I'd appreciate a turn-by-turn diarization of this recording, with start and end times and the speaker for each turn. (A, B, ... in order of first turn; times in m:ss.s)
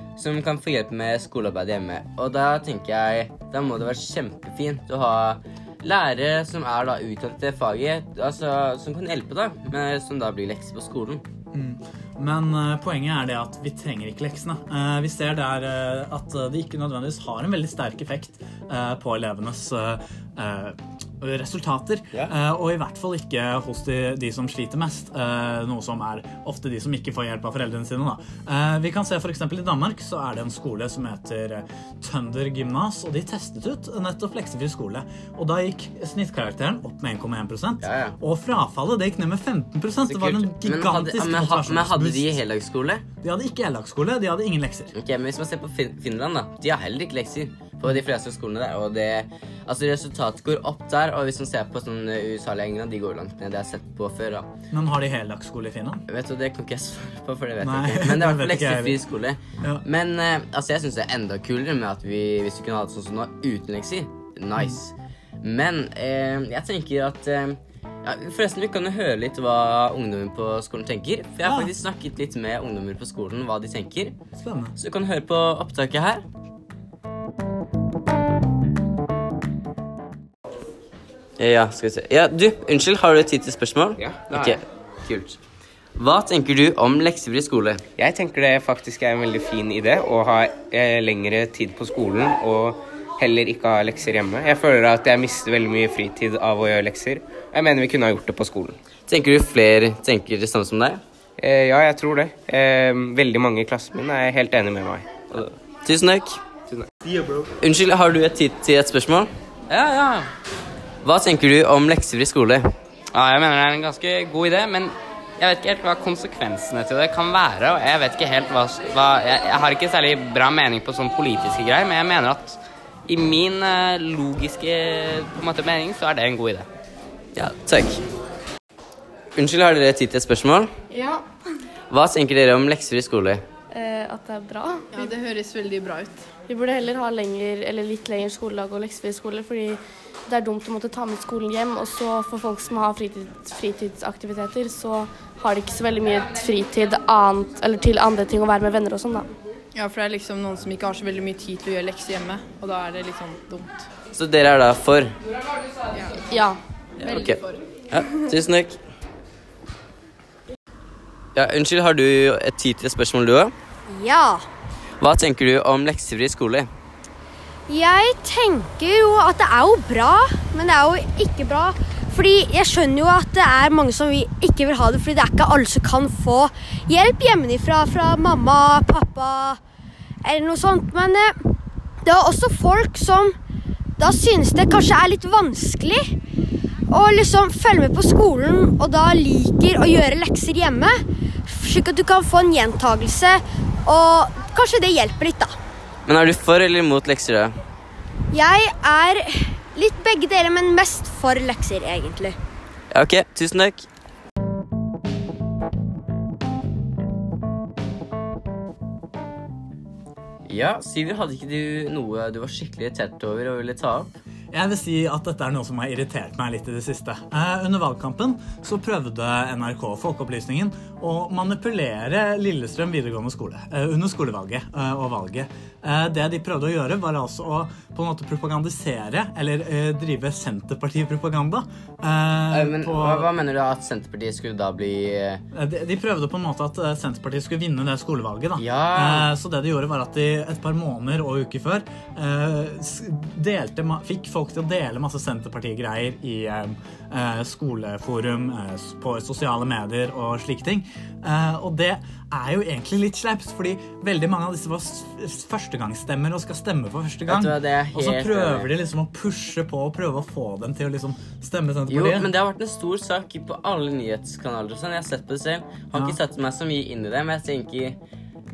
0:00.2-0:11.2 A
0:11.5-0:42.4 B
0:37.8-0:38.2 A
0:40.1-0:43.0 A
0:43.2-0:44.9 B
0:44.9-0:54.5 A
0:54.7-0:56.0 B
0:56.1-1:14.2 A
0:57.6-0:59.0 B
1:11.4-1:11.7 B
1:14.4-1:14.8 B
1:14.8-1:16.2 A
1:21.4-1:25.4 A
1:24.0-1:24.6 C
1:26.0-1:27.8 A
1:28.0-1:38.8 C
1:39.1-1:41.0 A
1:41.4-1:45.6 C
1:45.8-1:46.4 A
1:46.7-1:47.4 C
1:47.6-1:49.3 A
1:49.7-1:50.2 D
1:51.0-1:52.7 A
1:53.1-2:06.7 D
2:07.4-2:08.0 A
2:09.4-2:10.8 A
2:11.0-2:11.2 E
2:11.9-2:13.4 A
2:13.7-2:15.1 E
2:14.9-2:16.3 F
2:16.5-2:29.3 E
2:29.8-2:33.9 F
2:34.1-2:35.1 A
2:36.0-2:36.3 F
2:36.3-2:36.6 E
2:37.0-2:37.6 F
2:37.0-2:37.4 A
2:37.9-2:38.8 A
2:41.4-2:43.5 A
2:43.9-2:44.4 G
2:45.0-2:46.7 A
2:47.7-2:59.6 G
3:00.2-3:01.4 G
3:02.0-3:03.4 G
3:04.0-3:06.1 G
3:06.9-3:15.6 G
3:16.1-3:17.6 A
3:18.3-3:22.4 G
3:22.9-3:23.9 A
3:30.5-3:34.1 A
3:34.5-3:53.3 B
3:52.5-3:55.4 A
3:55.5-4:22.3 B
3:58.6-3:59.3 A
4:17.3-4:18.7 A
4:21.9-4:28.0 A
4:25.9-4:26.2 B